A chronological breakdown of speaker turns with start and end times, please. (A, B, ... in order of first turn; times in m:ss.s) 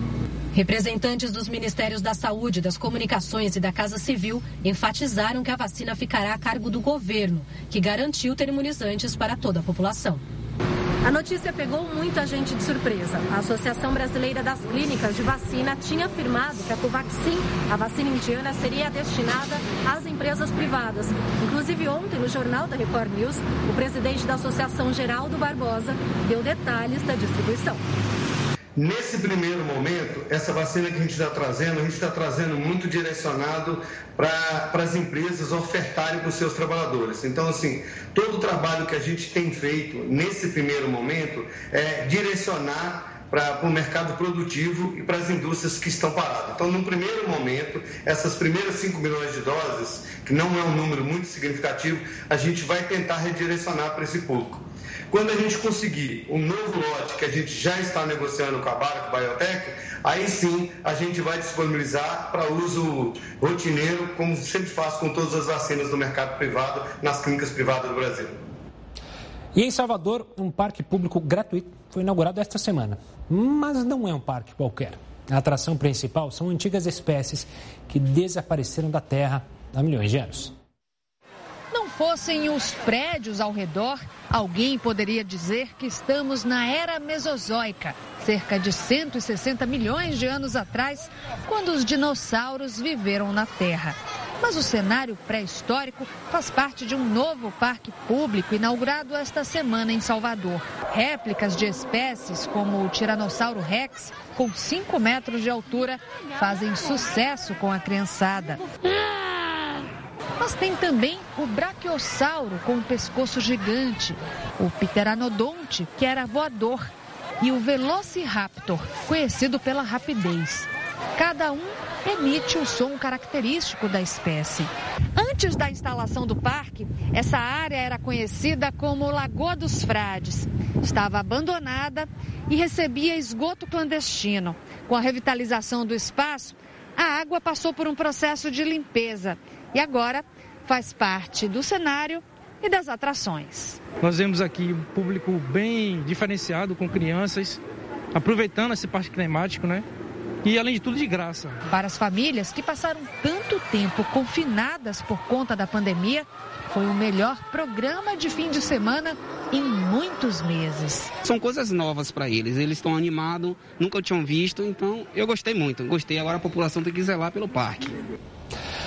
0:00.5-0:10.2 A
0:11.0-0:27.8 B
0:28.8-1:08.4 C
1:09.5-1:20.5 D
1:21.7-1:48.6 E
1:50.4-2:23.8 E
2:24.0-2:27.6 F
2:28.1-2:29.8 F
2:30.4-2:31.6 F
2:31.7-2:41.1 E
2:41.2-2:48.0 G